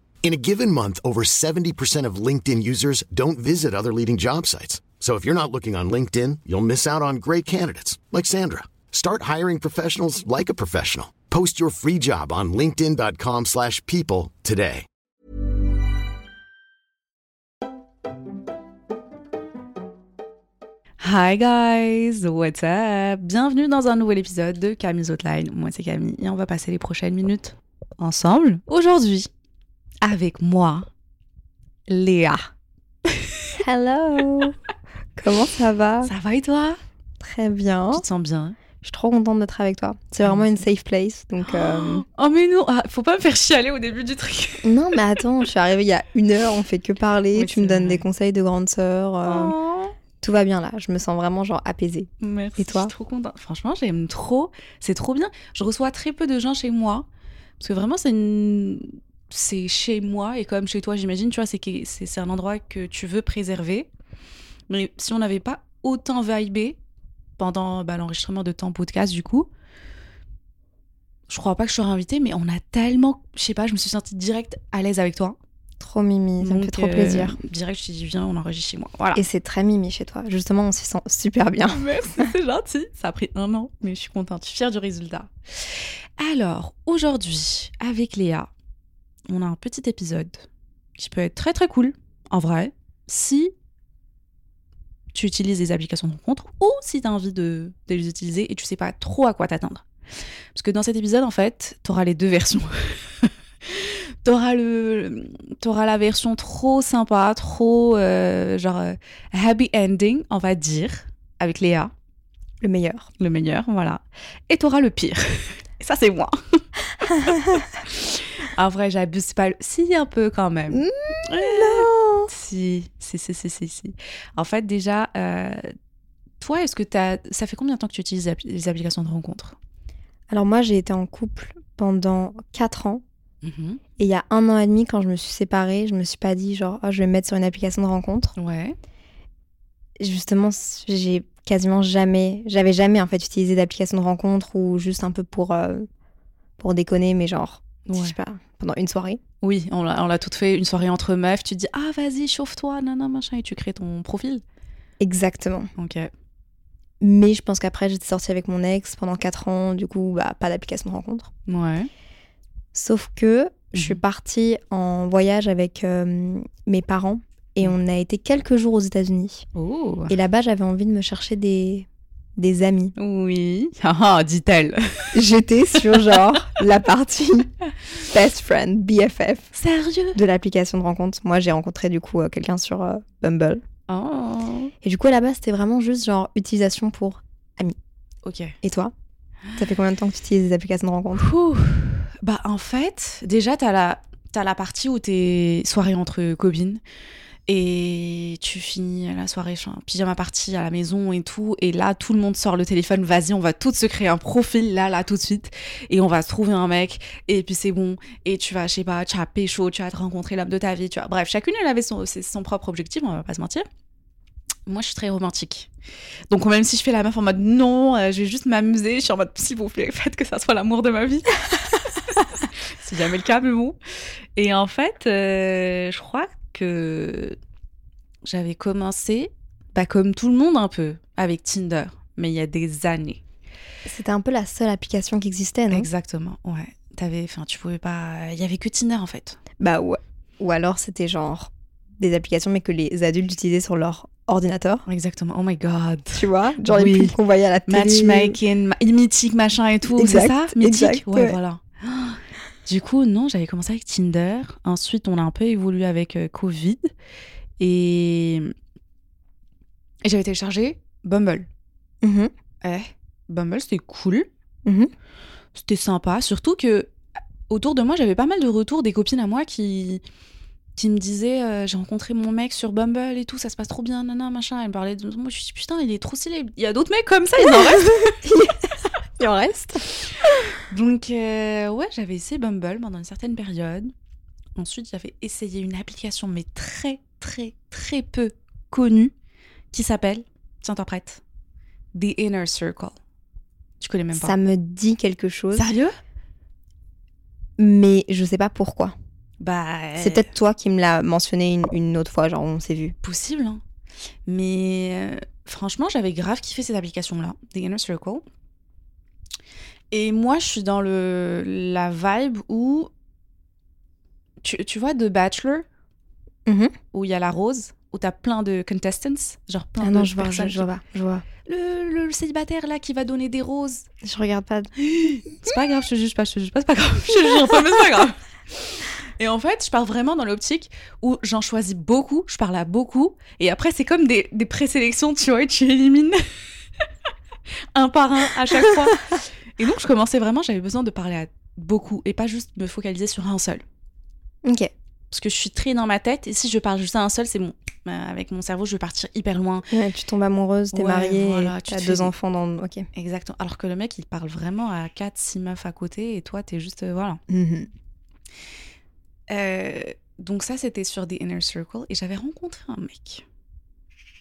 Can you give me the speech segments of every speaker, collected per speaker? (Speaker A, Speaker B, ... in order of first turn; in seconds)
Speaker A: 0.2-14.8
Speaker B: 21.0-29.3, 30.0-30.9, 31.9-32.5, 33.1-33.5, 36.0-36.8, 37.9-38.6, 40.2-40.5, 41.5-44.7, 47.3-48.0, 49.2-49.9, 52.2-57.0, 57.6-63.9, 64.7-66.8, 67.4-69.5, 71.3-75.4, 76.4-79.2, 81.7-88.5, 89.3-90.5, 91.0-93.5, 95.1-99.8, 100.5-111.9, 113.2-125.7, 126.4-129.6, 133.4-133.8, 138.3-138.8, 147.9-148.2, 149.4-154.4, 155.8-156.1, 161.5-161.9, 163.7-164.0, 169.5-170.2, 173.0-175.3, 179.5-180.2, 183.9-184.7, 188.2-188.6, 191.2-196.8, 197.5-213.7, 214.7-215.7, 216.3-223.8, 224.3-227.4, 228.2-233.2, 235.7-239.4, 244.9-247.1, 247.7-256.9, 257.6-258.5, 260.0-261.5, 262.6-264.3, 265.5-266.9, 267.5-270.0, 270.8-278.2, 280.5-283.9, 284.6-289.1, 289.7-291.2, 291.9-293.0, 293.8-294.4, 295.5-296.0, 299.4-300.3, 303.0-303.6, 304.2-308.2, 309.9-312.9, 314.4-315.6, 316.9-320.7, 321.4-323.9, 324.8-336.2, 337.7-343.6, 345.1-349.7, 350.7-352.1, 352.9-357.2, 359.3-363.2
Speaker C: 33.6-34.6, 35.2-36.1, 37.2-38.0, 38.8-42.0, 44.6-49.5, 50.2-52.9, 75.8-77.4, 79.1-82.2, 112.6-113.1, 120.7-122.3, 130.3-133.0, 134.0-138.3, 140.0-145.9, 146.6-149.2, 155.0-155.7, 157.0-161.3, 162.7-169.4, 170.1-172.9, 175.1-177.5, 178.1-179.5, 180.1-183.6, 184.8-187.8, 188.6-188.9, 189.6-191.3, 233.8-235.9, 239.6-244.8, 246.1-248.4, 249.9-251.4, 262.0-262.3, 277.4-279.9, 294.1-295.7, 297.6-298.9, 300.0-302.9, 316.4-316.7, 319.8-321.2, 324.0-324.7, 344.4-344.7, 349.7-352.9, 357.3-357.7